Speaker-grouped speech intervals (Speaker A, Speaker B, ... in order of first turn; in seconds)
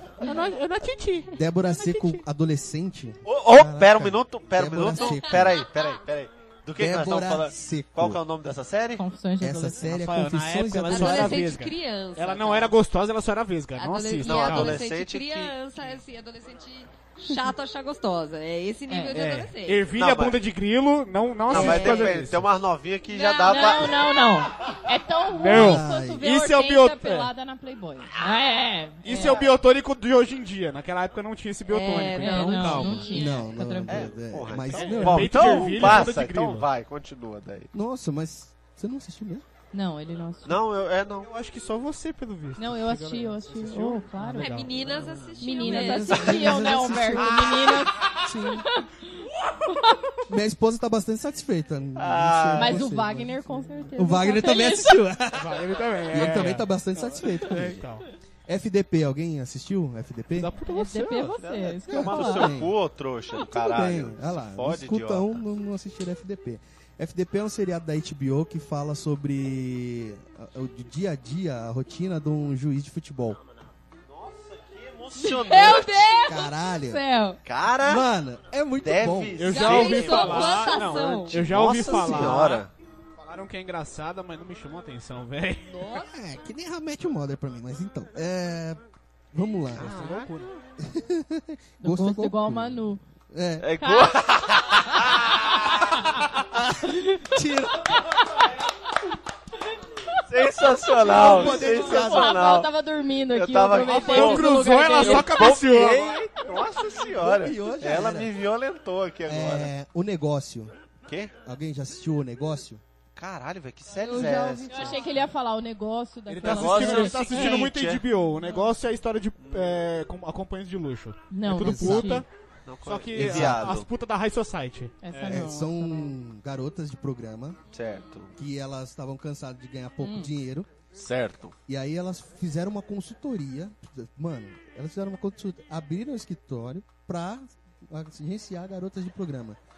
Speaker A: 0.2-2.2, 9.8-14.8, 19.1-22.5, 25.3-27.3, 29.0-33.2, 34.7-36.7, 41.2-45.4, 47.1-47.8, 55.3-58.0, 60.4-61.4, 79.4-82.7, 83.2-85.8, 89.7-90.5, 103.9-106.2, 116.3-122.3, 122.8-125.5
Speaker B: 0.2-0.5, 9.0-10.0, 18.9-19.2, 23.4-29.4, 32.1-34.2, 39.7-40.6, 42.6-44.6, 45.4-50.2, 52.6-55.0, 60.7-62.5, 91.8-93.0, 93.8-94.2, 94.9-96.2, 96.8-97.3, 100.9-105.5, 114.7-117.7, 121.3-122.3, 125.0-126.2, 130.0-130.3
Speaker C: 1.3-5.6, 6.8-8.2, 9.4-11.4, 25.5-26.2, 33.1-36.1, 37.7-39.5, 45.6-48.7, 50.3-57.8, 58.5-60.5, 61.9-62.7, 63.4-73.4, 76.3-77.0, 77.8-79.5, 86.0-88.8, 89.3-90.2, 90.8-93.7, 96.5-98.0, 101.0-102.4, 107.1-108.3, 109.3-110.7, 111.4-112.8, 121.5-122.2, 123.1-123.8, 125.3-127.6, 128.4-130.7, 131.7-139.6
Speaker D: 3.2-9.0, 14.2-15.6, 19.9-20.4, 21.5-24.1, 33.9-37.7, 40.5-41.3, 52.0-52.8, 61.4-65.4, 74.1-76.3, 77.4-78.1, 78.8-82.7, 89.8-90.3, 93.6-96.0, 100.3-102.7, 103.3-109.7, 111.1-111.3, 113.2-115.0, 116.4-118.0, 119.4-119.8, 122.7-123.9, 127.7-128.3, 130.9-131.6
Speaker E: 4.9-5.6, 10.9-12.8, 13.8-19.9, 21.5-22.2, 23.1-24.0, 29.1-29.5, 31.7-33.4, 44.4-46.5, 75.2-77.4, 79.5-82.4, 85.7-86.1, 113.9-115.1